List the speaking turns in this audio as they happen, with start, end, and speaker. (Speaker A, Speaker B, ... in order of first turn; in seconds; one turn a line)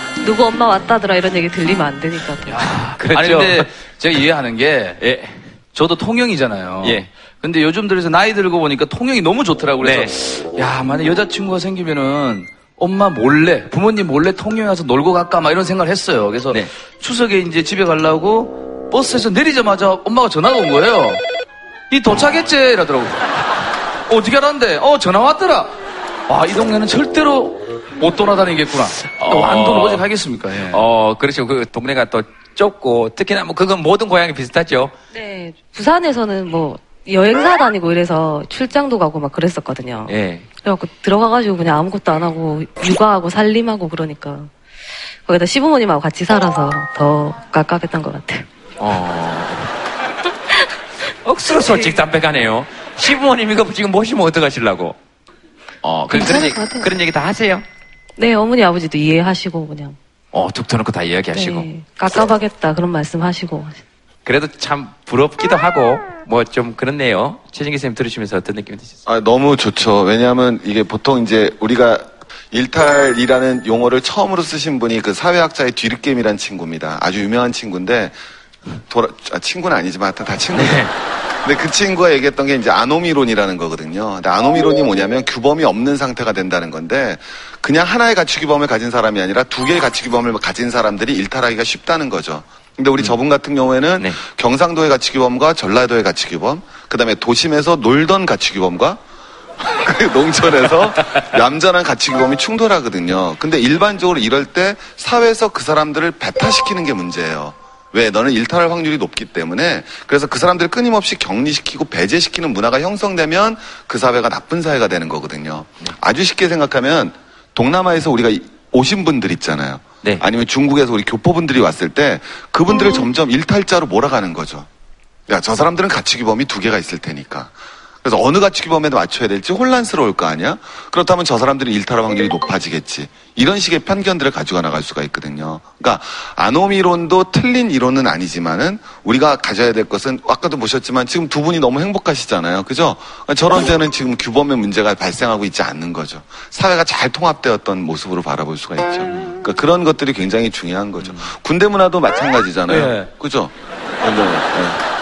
Speaker A: 0.2-2.7
Speaker B: 2.5-5.0
Speaker C: 2.9-3.7
Speaker C: 5.0-5.5
Speaker B: 5.7-21.2
Speaker C: 6.8-7.1
Speaker C: 9.8-10.1
Speaker B: 21.9-23.4
Speaker B: 24.1-25.7
Speaker B: 26.3-30.8
Speaker C: 29.0-30.1
Speaker C: 30.7-34.9
Speaker A: 35.1-40.1
Speaker C: 40.1-40.5
Speaker A: 40.6-44.5
Speaker A: 45.2-48.5
Speaker C: 48.8-49.7
Speaker C: 51.2-55.0
Speaker C: 55.8-57.6
Speaker A: 56.1-56.9
Speaker A: 58.2-60.0
Speaker C: 60.3-61.7
Speaker A: 61.3-63.8
Speaker C: 64.2-69.0
Speaker D: 69.0-78.2
Speaker D: 78.9-80.8
Speaker C: 80.5-80.9
Speaker D: 81.4-99.0
Speaker D: 99.7-124.7
Speaker D: 125.3-127.5
Speaker D: 128.0-154.8
Speaker C: 151.0-151.3
Speaker B: 152.7-153.1